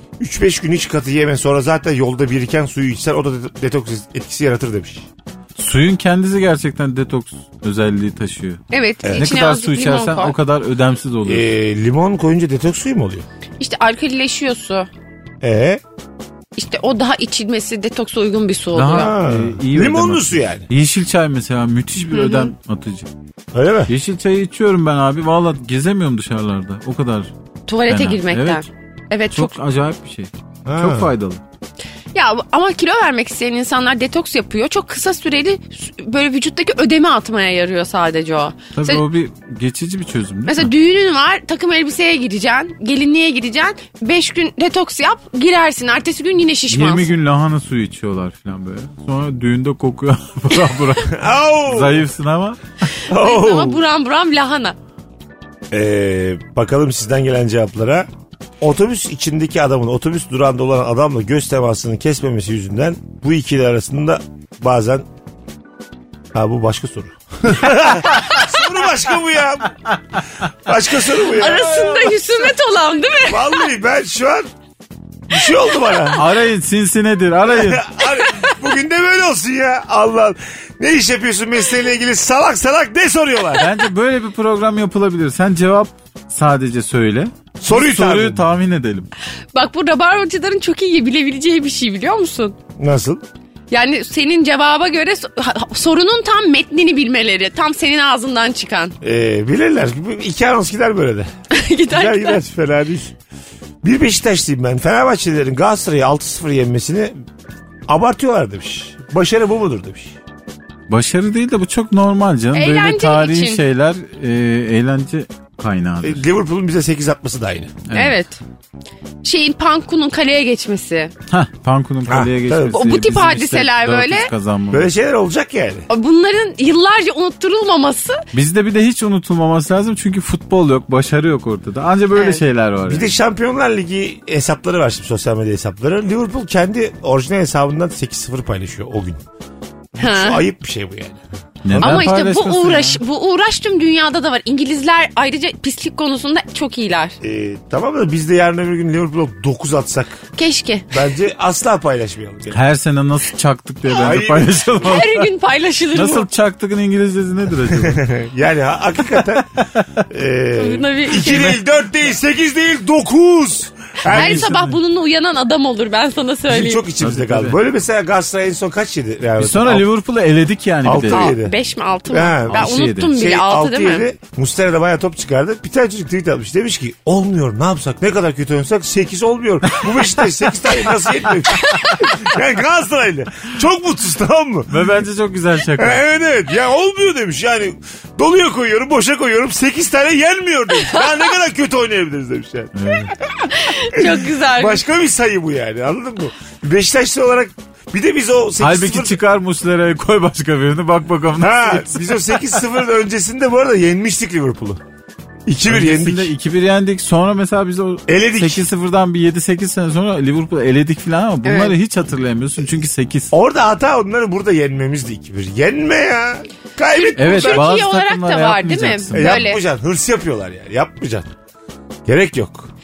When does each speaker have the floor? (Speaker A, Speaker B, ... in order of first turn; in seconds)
Speaker A: 0.2-5.1, 11.2-13.2, 15.4-15.8, 18.9-20.6, 23.5-23.9, 30.6-31.1, 51.1-52.0, 53.1-53.8, 55.7-58.1, 58.6-65.0, 66.3-69.8, 70.6-71.7, 73.2-74.5, 75.3-76.3, 77.5-83.7, 87.6-88.4, 92.8-93.2, 99.0-101.3, 101.9-103.1, 103.8-107.1, 107.9-110.2, 116.0-117.8, 122.1-122.8, 124.7-125.8, 132.8-139.2, 139.9-142.1, 147.2-150.2, 150.9-152.6, 153.9-155.0, 157.7-159.5, 160.1-164.5, 166.5-169.8, 170.8-171.5, 172.1-184.8, 185.8-193.1, 193.9-199.2, 201.4-204.8, 205.5-206.3, 208.1-208.6, 213.3-217.7, 219.1-221.3, 222.1-222.7
Speaker B: 5.6-11.4, 18.7-23.1, 23.9-27.3, 27.9-28.7, 29.3-31.4, 38.7-40.7, 46.7-52.6, 71.6-72.3, 76.1-77.9, 83.5-89.1, 110.9-116.2, 117.9-118.2, 121.3-124.9, 128.3-133.1, 141.6-143.0, 152.5-155.3, 155.9-158.0, 159.1-159.8, 161.1-161.5, 164.0-164.8, 167.0-167.6, 169.4-171.3, 172.5-173.1, 184.7-186.0, 192.8-193.1, 198.6-202.4, 205.7-213.3, 217.2-219.5
Speaker C: 8.7-10.3, 13.6-14.9, 16.6-19.1, 22.1-22.5, 27.7-29.5, 32.1-39.0, 40.5-47.1, 52.9-54.8, 71.3-73.5, 78.1-78.6, 89.5-92.6, 93.7-98.9, 101.5-102.4, 112.5-113.6, 117.9-118.4, 119.2-121.1, 122.7-124.3, 125.9-128.2, 132.1-132.4, 140.0-140.4, 141.8-147.2, 150.3-150.9, 154.8-156.2, 160.6-161.6, 164.1-166.8, 171.0-174.0, 181.6-182.1, 193.5-194.8, 211.4-211.7, 216.9-219.6